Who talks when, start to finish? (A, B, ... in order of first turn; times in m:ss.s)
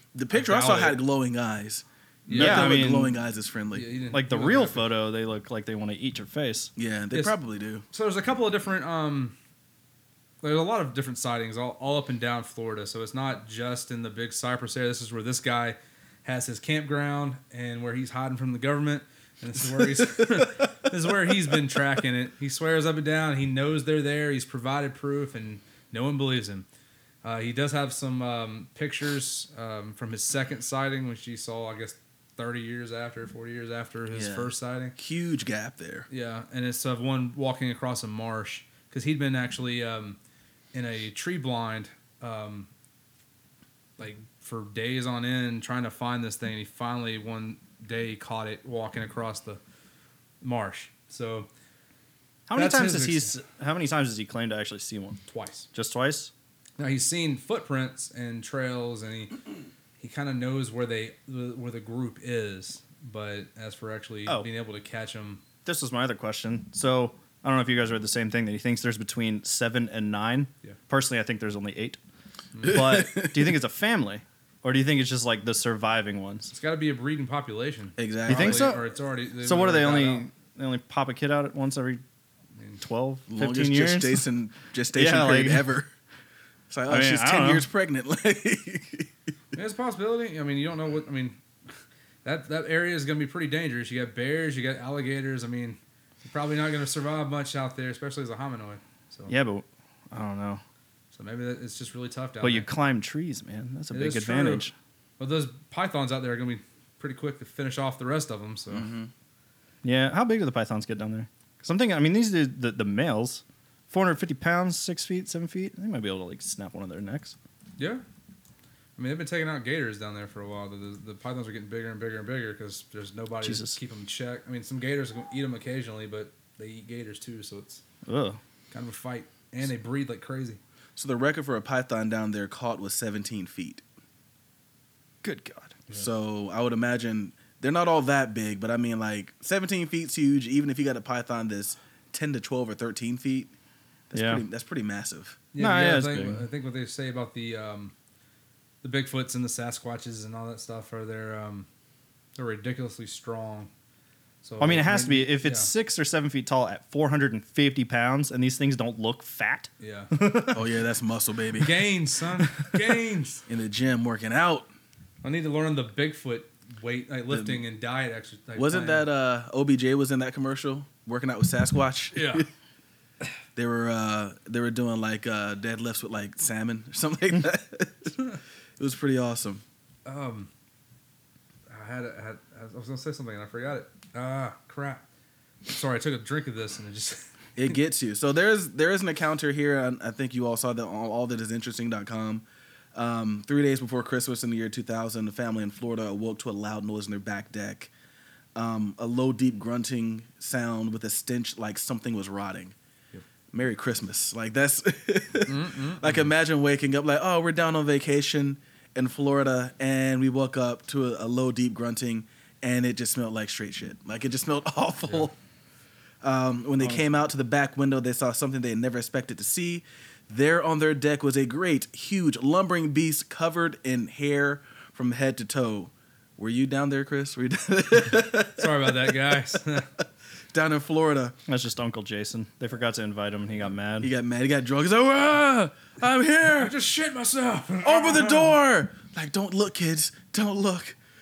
0:00.1-0:03.9 A
0:00.3-0:01.0 B
0:02.3-0:02.8 B
0:02.3-0:03.1 C
0:03.7-0:04.9 B
0:04.1-0:06.7 C
0:06.8-0:07.8 A
0:07.9-0:09.3 B
0:10.4-0:26.6 B
0:27.2-0:34.9 B
0:34.1-0:36.1 A
0:36.1-0:40.2 B
0:40.7-0:42.7 B
0:44.0-0:49.6 B
0:50.4-0:51.5 B
0:52.5-0:55.2 C
0:52.6-0:53.3 B
0:55.3-0:55.7 B
0:55.7-0:56.3 C
0:56.8-0:59.4 B
1:00.0-1:05.4 B
1:05.6-1:12.0 C
1:12.6-1:13.5 A
1:12.6-1:16.5 C
1:16.5-1:20.2 B
1:18.0-1:18.7 A
1:18.3-1:18.9 C
1:19.4-1:22.0 C
1:22.6-1:22.8 B
1:22.8-1:24.2 C
1:23.3-1:25.9 A
1:24.9-1:25.6 C
1:26.7-1:29.1 A
1:26.9-1:27.6 C
1:29.5-1:31.4 B
1:32.2-1:39.3 B
1:39.3-1:40.6 C
1:41.1-1:42.7 B
1:42.4-1:44.7 C
1:43.9-1:44.7 B
1:45.2-1:48.9 B
1:48.7-1:49.1 A
1:49.8-1:57.4 C
1:57.8-1:58.0 B
1:59.0-2:07.8 B
2:03.4-2:03.7 C
2:08.0-2:08.4 C
2:08.7-2:10.6 B
2:11.0-2:13.8 A
2:15.2-2:15.7 C
2:15.9-2:23.5 A
2:24.1-2:25.4 A
2:24.1-2:24.4 C
2:25.5-2:27.9 B
2:25.6-2:26.4 C
2:28.8-2:31.7 B
2:32.4-2:33.7 B
2:34.4-2:35.7 B
2:34.6-2:40.7 C
2:39.8-2:40.1 B
2:40.5-2:41.8 A
2:41.6-2:43.4 B
2:43.5-2:44.7 A
2:45.2-2:49.1 B
2:47.3-2:47.6 A
2:48.6-2:52.5 A
2:52.1-2:52.4 B
2:53.6-2:58.2 A
2:58.8-2:59.6 A
3:00.0-3:00.5 B
3:01.7-3:05.0 B
3:05.6-3:07.3 B
3:07.6-3:17.9 A
3:18.6-3:22.7 A
3:23.5-3:35.3 A
3:25.5-3:26.2 B
3:36.2-3:49.6 A
3:48.6-3:49.9 B
3:50.5-3:51.4 A
3:51.5-3:54.1 C
3:54.0-3:56.7 A
3:56.6-3:58.6 B
3:57.8-4:01.0 A